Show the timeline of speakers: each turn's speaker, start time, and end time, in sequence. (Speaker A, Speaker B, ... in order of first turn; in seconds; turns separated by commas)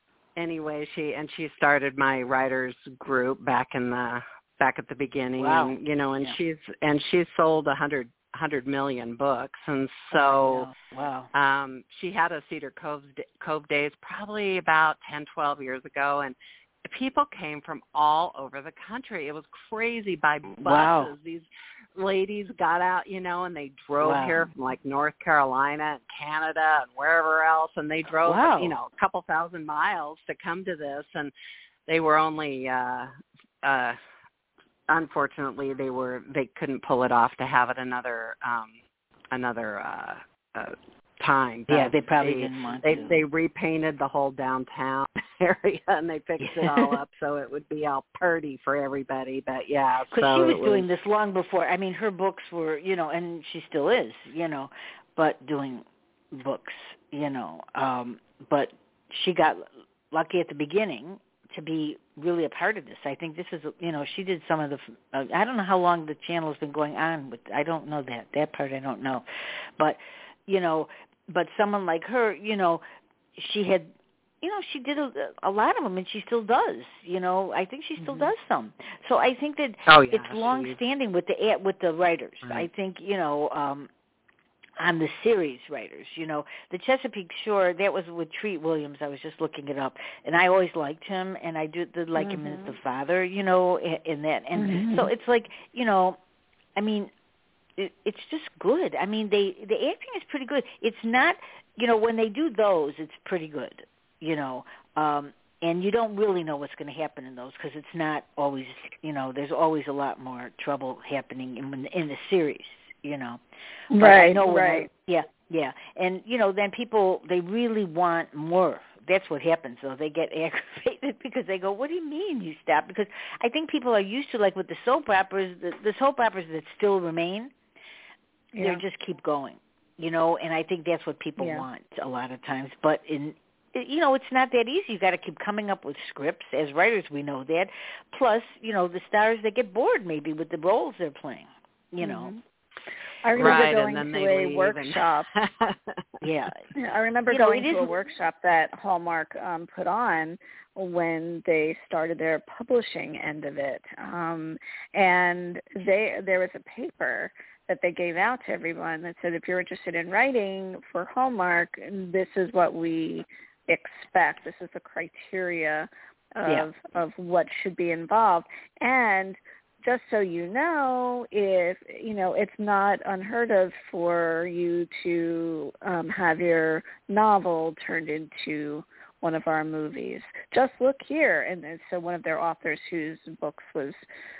Speaker A: 0.3-10.7, Speaker B: 5.4-6.3, Speaker B: 10.1-11.3, Speaker A: 11.3-31.3, Speaker B: 20.6-21.1, Speaker B: 24.0-24.4, Speaker B: 28.2-28.7, Speaker A: 31.9-33.1, Speaker A: 33.6-34.0, Speaker A: 34.9-38.7, Speaker A: 39.3-50.9, Speaker B: 41.7-43.2, Speaker B: 46.4-47.0, Speaker B: 50.1-69.2, Speaker B: 69.8-72.8, Speaker B: 73.4-83.9, Speaker A: 78.0-78.3, Speaker A: 79.9-80.8, Speaker B: 84.8-96.2, Speaker C: 92.2-92.7, Speaker C: 94.5-95.1, Speaker B: 96.8-97.1, Speaker B: 97.8-113.4, Speaker C: 113.9-114.9, Speaker B: 114.0-127.5, Speaker C: 128.5-128.8, Speaker B: 128.6-142.3, Speaker C: 131.4-131.7, Speaker C: 142.0-142.4, Speaker C: 143.2-145.3, Speaker A: 143.3-145.9, Speaker B: 146.2-146.5, Speaker C: 146.8-184.0, Speaker B: 147.3-147.9